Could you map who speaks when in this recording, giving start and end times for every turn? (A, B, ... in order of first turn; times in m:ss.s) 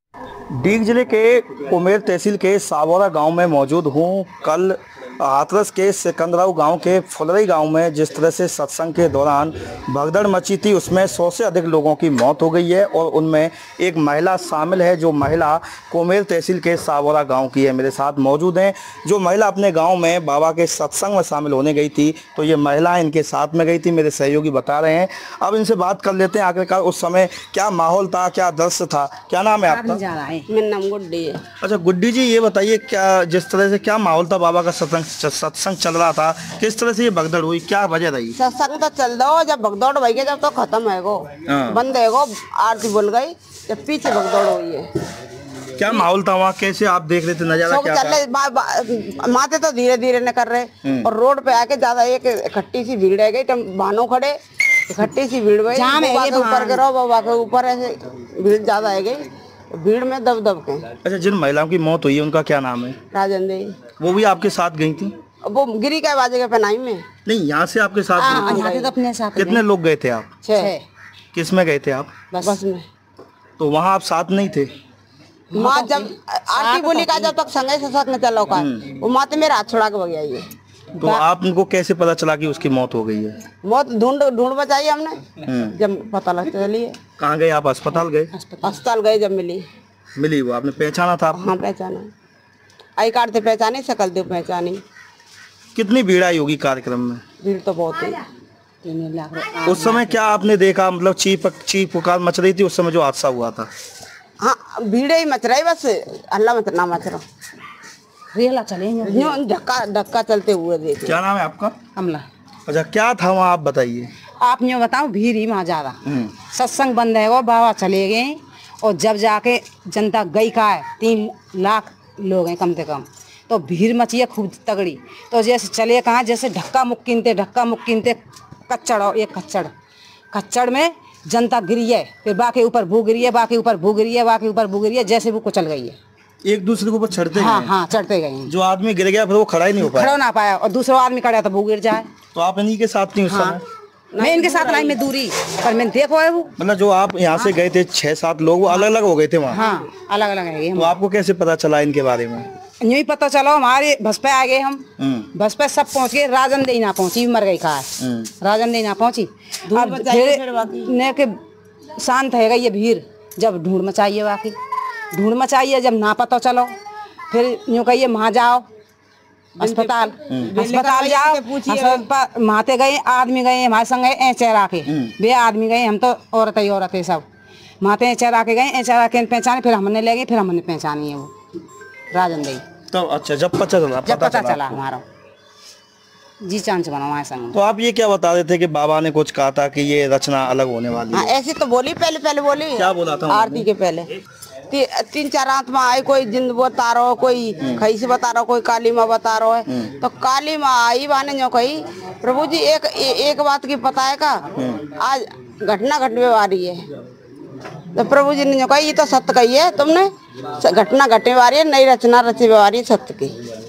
0:00.5-0:30.0 A
0:29.7-0:30.4 B
0:30.5-0:31.4 C
0:31.6-0:38.4 A
0:38.4-0:44.9 C
0:41.4-0:41.8 A
0:45.8-0:48.2 A
0:47.7-0:54.4 C
0:50.8-0:51.1 A
0:54.9-1:00.9 C
0:55.7-0:56.8 B
1:01.0-1:03.0 A
1:03.1-1:03.8 C
1:04.0-1:05.2 A
1:05.4-1:07.0 C
1:07.2-1:08.6 A
1:08.2-1:08.9 C
1:08.2-1:09.6 B
1:09.4-1:10.3 A
1:10.4-1:10.7 C
1:11.3-1:12.2 A
1:12.3-1:12.6 B
1:12.4-1:12.8 C
1:13.6-1:14.7 A
1:15.5-1:17.3 B
1:15.5-1:20.4 C
1:18.6-1:18.9 A
1:21.0-1:23.4 A
1:23.6-1:25.2 C
1:25.4-1:25.8 A
1:25.8-1:27.0 C
1:27.2-1:28.3 A
1:28.6-1:29.6 C
1:30.2-1:31.5 A
1:31.3-1:32.1 C
1:33.0-1:34.8 C
1:35.7-1:37.2 A
1:37.4-1:38.2 C
1:38.8-1:40.1 B
1:39.6-1:43.7 A
1:44.4-1:47.2 C
1:48.4-1:49.4 B
1:49.0-1:51.2 C
1:51.0-1:51.8 A
1:52.0-1:52.2 B
1:52.6-1:54.1 A
1:54.4-1:56.0 B
1:56.0-1:56.3 A
1:56.5-2:08.2 B
2:08.7-2:09.7 B
2:10.3-2:16.0 B
2:16.4-2:17.7 A
2:17.4-2:18.5 B
2:18.5-2:20.2 A
2:19.8-2:22.1 B
2:22.3-2:23.6 A
2:23.3-2:23.6 B
2:24.1-2:25.0 C
2:24.2-2:26.5 B
2:26.6-2:29.6 A
2:29.5-2:30.9 B
2:30.8-2:32.5 A
2:32.8-2:37.9 B
2:35.0-2:35.3 A
2:38.0-2:38.3 A
2:38.4-2:41.4 B
2:39.7-2:40.9 C
2:42.0-2:44.5 B
2:45.1-2:46.7 B
2:47.3-2:48.6 B
2:49.6-2:52.0 C
2:49.6-2:57.2 B
2:54.9-2:55.1 A
2:57.8-3:01.3 B
3:02.1-3:02.6 B
3:02.9-3:04.8 A
3:04.0-3:05.0 B
3:06.4-3:07.6 B
3:07.5-3:11.3 A
3:11.1-3:14.1 C
3:12.8-3:13.6 A
3:14.7-3:26.9 C
3:19.7-3:19.9 A
3:24.6-3:24.9 A
3:27.9-3:33.3 C